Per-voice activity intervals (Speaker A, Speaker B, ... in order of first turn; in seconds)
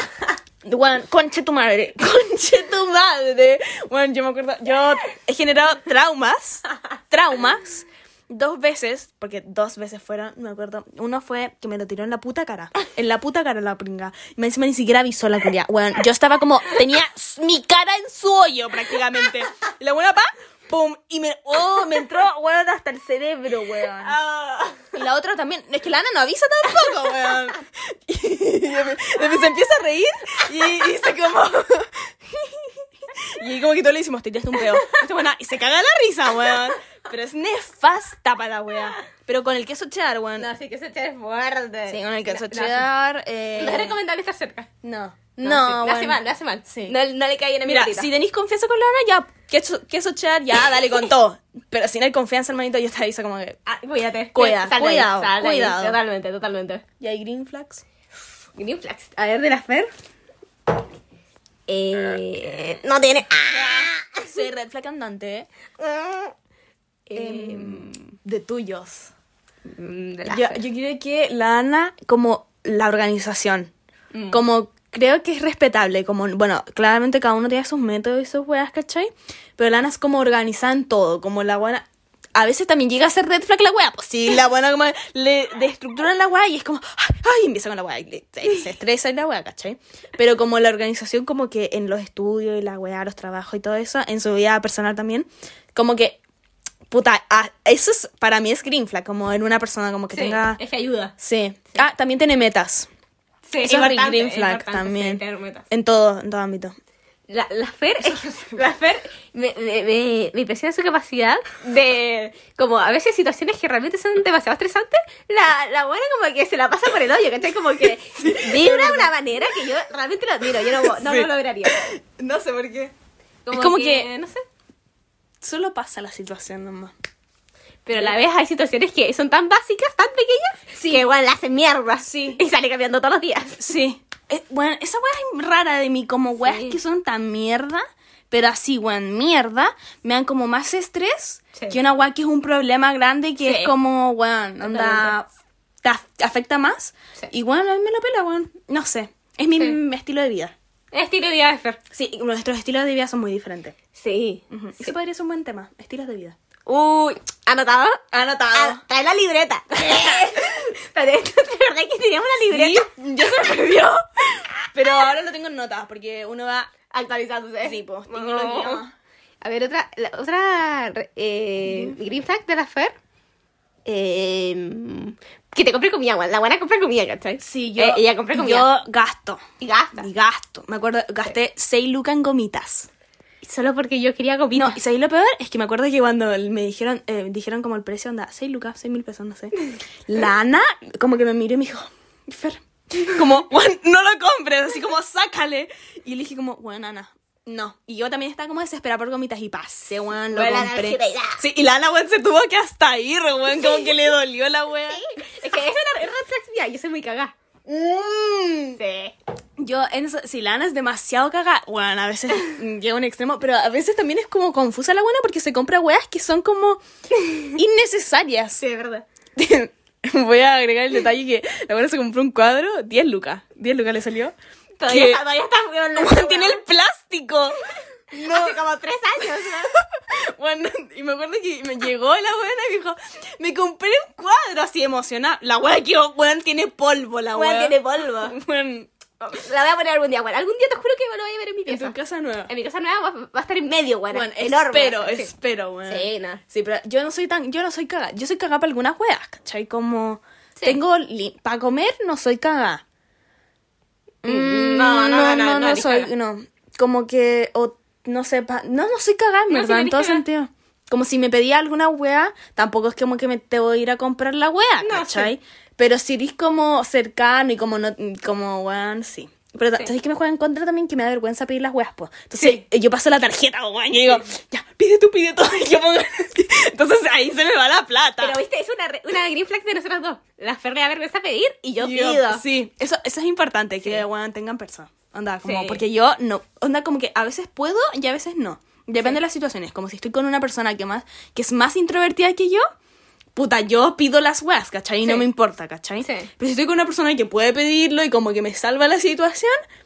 Speaker A: 0.6-24.2, 24.9-40.5, 41.9-44.0, 44.8-47.0, 47.6-53.6, 54.3-56.0, 57.0-57.8, 63.5-65.5, 67.1-69.1, 70.3-73.7, 74.3-96.2, 96.9-100.6, 101.2-102.9, 103.6-106.7, 108.2-108.5, 118.1-119.1, 120.6-122.9, 123.5-124.1, 125.4-126.9, 130.8-131.0, 132.0-132.4, 133.6-145.3, 145.8-150.5, 151.9-153.8, 154.5-156.4, 158.1-158.8, 159.8-160.3, 162.5-166.7, 167.6-168.9, 171.7-172.0, 177.4-179.4, 180.0-182.9, 184.6-189.6, 190.1-205.0, 207.7-208.8, 209.6-216.8, 217.5-218.6, 219.4-224.3, 224.9-225.2, 226.0-228.6, 229.4-239.4, 241.7-242.5, 244.1-252.8, 254.2-278.4, 281.8-292.7, 293.4-299.6
Speaker B: 24.0-24.9, 34.6-35.0, 36.5-36.7, 40.4-42.9, 43.6-44.7, 45.4-48.1, 53.7-56.8, 58.6-59.9, 61.7-64.2, 65.8-66.3, 67.1-67.9, 69.7-70.6, 74.1-74.4, 100.1-101.1, 103.5-105.7, 107.3-121.8, 123.5-124.4, 127.9-133.6, 136.4-136.8, 143.4-143.7, 144.6-145.2, 150.9-151.8, 153.9-154.9, 156.7-158.0, 158.5-163.8, 166.9-168.8, 169.4-172.9, 173.8-178.7, 179.6-180.1, 183.4-184.8, 200.3-201.4, 204.9-207.3, 208.8-209.2, 217.2-217.5, 218.6-219.1, 224.8-226.6, 228.2-229.7, 237.3-238.4, 239.3-242.0, 242.5-245.3, 245.9-246.4, 254.2-256.1, 259.5-260.2, 264.8-265.3, 278.2-282.4, 285.4-285.8, 295.0-295.3, 296.0-296.3